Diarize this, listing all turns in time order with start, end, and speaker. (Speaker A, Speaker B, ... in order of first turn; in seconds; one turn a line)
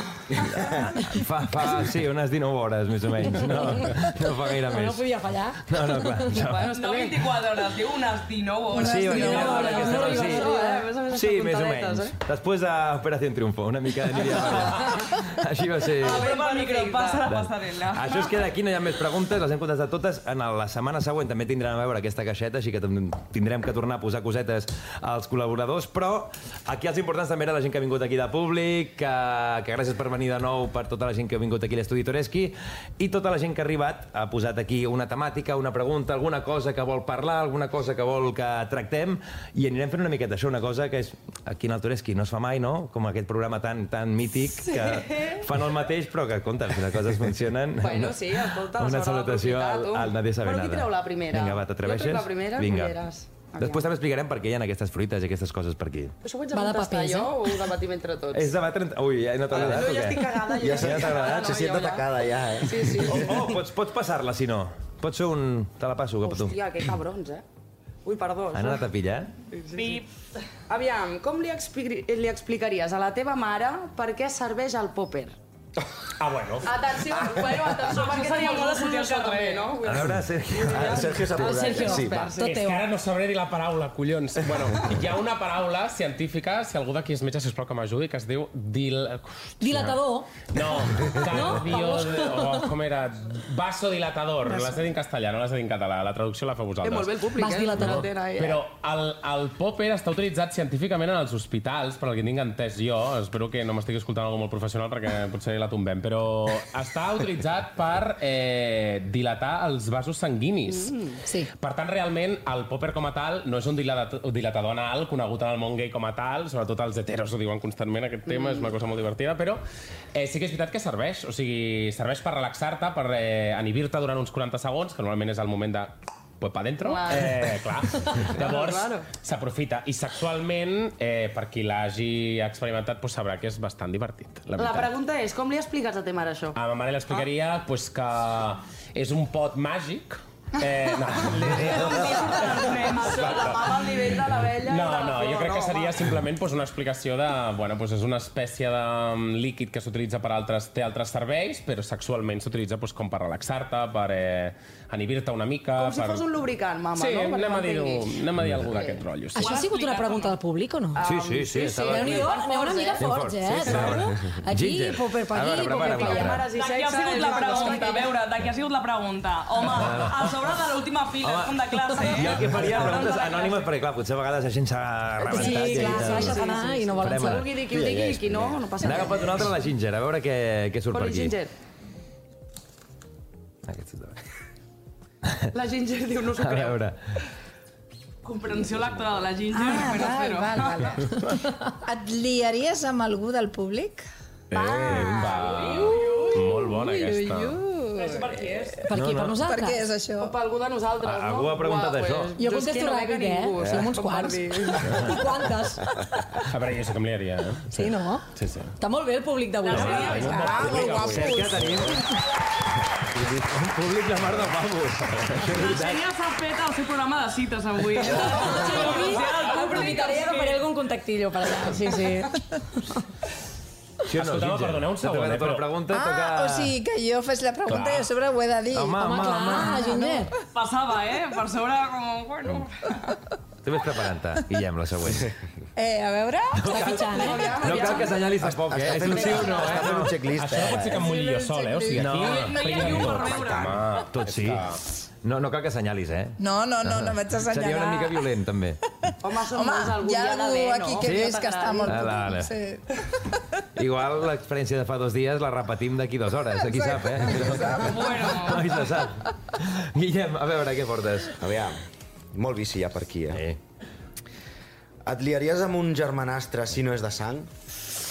Speaker A: 0.4-5.0
Speaker B: 4.7-6.3
Speaker A: 5.6-6.7
Speaker C: 6.3-7.2
Speaker D: 6.7-10.2
Speaker A: 8.7-16.3
Speaker B: 8.9-10.8
Speaker C: 9.2-12.2
Speaker C: 16.0-17.2
Speaker D: 16.0-18.4
Speaker A: 17.2-56.1
Speaker C: 47.8-53.9
Speaker C: 56.2-58.5
Speaker B: 56.5-57.4
Speaker A: 58.3-61.6
Speaker C: 59.5-62.1
Speaker E: 60.6-63.4
Speaker C: 62.6-63.5
Speaker A: 63.0-66.6
Speaker C: 66.2-67.4
Speaker C: 68.0-68.8
Speaker A: 68.5-69.3
Speaker C: 69.5-70.0
Speaker D: 69.7-70.1
Speaker C: 70.7-75.3
Speaker F: 76.2-77.0
Speaker C: 76.6-82.7
Speaker D: 77.9-79.8
Speaker A: 79.8-81.5
Speaker E: 80.7-82.3
Speaker B: 81.4-82.8
Speaker F: 82.4-90.0
Speaker B: 89.6-90.3
Speaker F: 90.5-97.2
Speaker B: 91.3-92.3
Speaker C: 91.3-92.2
Speaker C: 96.8-98.7
Speaker B: 97.4-98.0
Speaker F: 97.7-110.9
Speaker C: 110.7-111.2
Speaker F: 111.6-119.6
Speaker C: 118.3-118.7
Speaker F: 120.1-134.9
Speaker C: 126.8-127.6
Speaker C: 128.1-129.1
Speaker C: 134.6-136.6
Speaker F: 136.5-143.6
Speaker D: 141.6-143.6
Speaker C: 142.7-146.0
Speaker F: 144.6-156.2
Speaker C: 155.7-159.0
Speaker F: 156.9-159.5
Speaker B: 159.3-161.0
Speaker D: 159.4-160.3
Speaker C: 161.0-163.1
Speaker A: 161.0-162.4
Speaker B: 161.7-166.4
Speaker A: 163.0-166.5
Speaker C: 165.7-168.2
Speaker D: 166.5-173.7
Speaker B: 167.4-167.8
Speaker A: 169.6-170.3
Speaker A: 171.2-177.5
Speaker B: 175.2-177.4
Speaker C: 175.3-179.5
Speaker E: 177.7-178.7
Speaker A: 178.8-181.4
Speaker C: 180.9-181.5
Speaker A: 183.6-184.2
Speaker A: 185.3-185.5
Speaker C: 185.5-186.8
Speaker A: 186.3-187.1
Speaker D: 188.2-191.0
Speaker G: 189.5-194.0
Speaker F: 194.5-197.6
Speaker C: 194.5-196.3
Speaker D: 195.3-196.3
Speaker D: 197.9-198.8
Speaker C: 198.0-198.2
Speaker B: 198.9-199.8
Speaker A: 198.9-199.4
Speaker G: 199.4-200.3
Speaker C: 200.2-205.0
Speaker A: 201.0-202.3
Speaker B: 202.3-206.0
Speaker F: 206.5-207.8
Speaker B: 207.7-208.2
Speaker F: 208.3-208.7
Speaker B: 208.8-211.3
Speaker D: 209.7-210.5
Speaker F: 209.7-211.6
Speaker A: 209.8-212.1
Speaker G: 210.4-211.7
Speaker A: 213.2-216.0
Speaker D: 215.5-220.7
Speaker B: 218.0-222.4
Speaker A: 224.1-226.7
Speaker F: 224.1-225.7
Speaker G: 225.9-230.3
Speaker F: 227.7-228.1
Speaker A: 228.7-229.8
Speaker B: 229.0-230.3
Speaker D: 230.5-232.9
Speaker A: 233.6-235.3
Speaker G: 235.8-237.1
Speaker A: 236.6-240.3
Speaker B: 236.7-237.9
Speaker C: 237.0-238.2
Speaker E: 238.4-241.1
Speaker C: 239.1-239.8
Speaker F: 240.3-244.8
Speaker G: 240.7-242.2
Speaker A: 241.9-248.8
Speaker D: 242.2-243.8
Speaker G: 246.4-248.3
Speaker G: 249.1-253.0
Speaker C: 249.2-252.2
Speaker A: 251.0-252.5
Speaker A: 253.8-261.4
Speaker G: 256.7-258.7
Speaker D: 257.8-258.7
Speaker E: 261.4-261.8
Speaker E: 262.3-263.4
Speaker A: 263.3-263.6
Speaker E: 265.1-267.5